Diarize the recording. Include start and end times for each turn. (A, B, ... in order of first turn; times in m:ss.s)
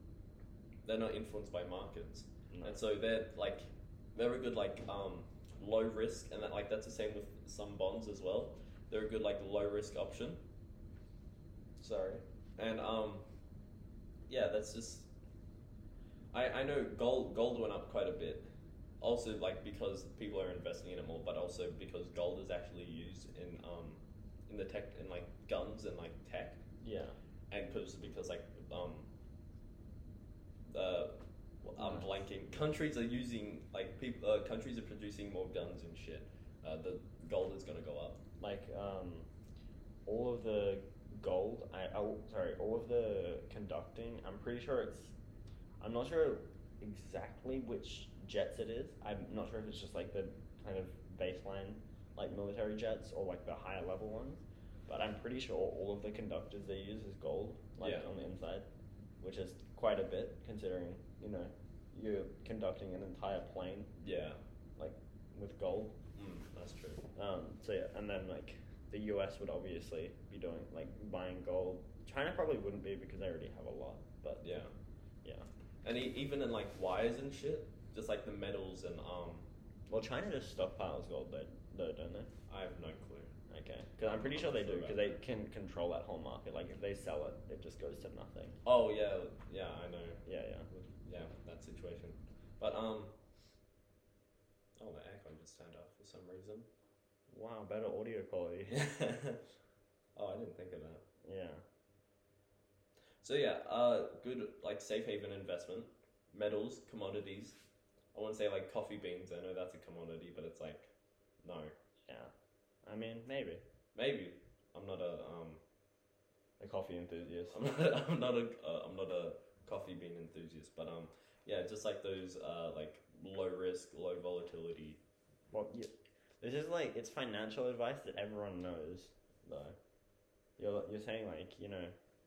0:00.8-0:10.4 A
0:02.5-0:02.8 B
0:11.8-0:13.2 A
0:14.3-0:15.1 A
0:16.3-0:18.5 A
0:19.0-0:26.6 A
0:26.8-0:27.2 B
0:27.5-0:29.1 A
0:30.7-0:38.2 A
0:31.8-0:32.2 B
0:38.4-0:39.3 B
0:40.0-0:45.2 B
0:45.8-0:58.7 B
0:57.8-0:58.1 A
0:59.2-1:03.9 B
1:04.0-1:04.4 A
1:04.8-1:06.0 B
1:06.2-1:07.0 A
1:07.2-1:14.4 B
1:14.4-1:14.7 A
1:15.8-1:19.5 A
1:19.9-1:22.3 B
1:22.5-1:23.3 A
1:23.5-1:28.6 B
1:24.1-1:25.2 A
1:28.6-1:30.2 A
1:30.2-1:30.7 B
1:30.8-1:33.2 A
1:34.8-1:36.7 A
1:37.3-1:38.8 B
1:38.7-1:39.4 A
1:40.2-1:41.0 A
1:41.2-1:41.6 B
1:43.2-1:47.6 A
1:48.1-1:50.9 A
1:51.4-1:51.7 A
1:52.1-1:52.3 B
1:52.8-1:53.6 B
1:53.9-1:55.6 A
1:56.6-1:57.7 B
1:57.5-2:05.0 A
2:05.5-2:09.8 B
2:10.6-2:11.9 B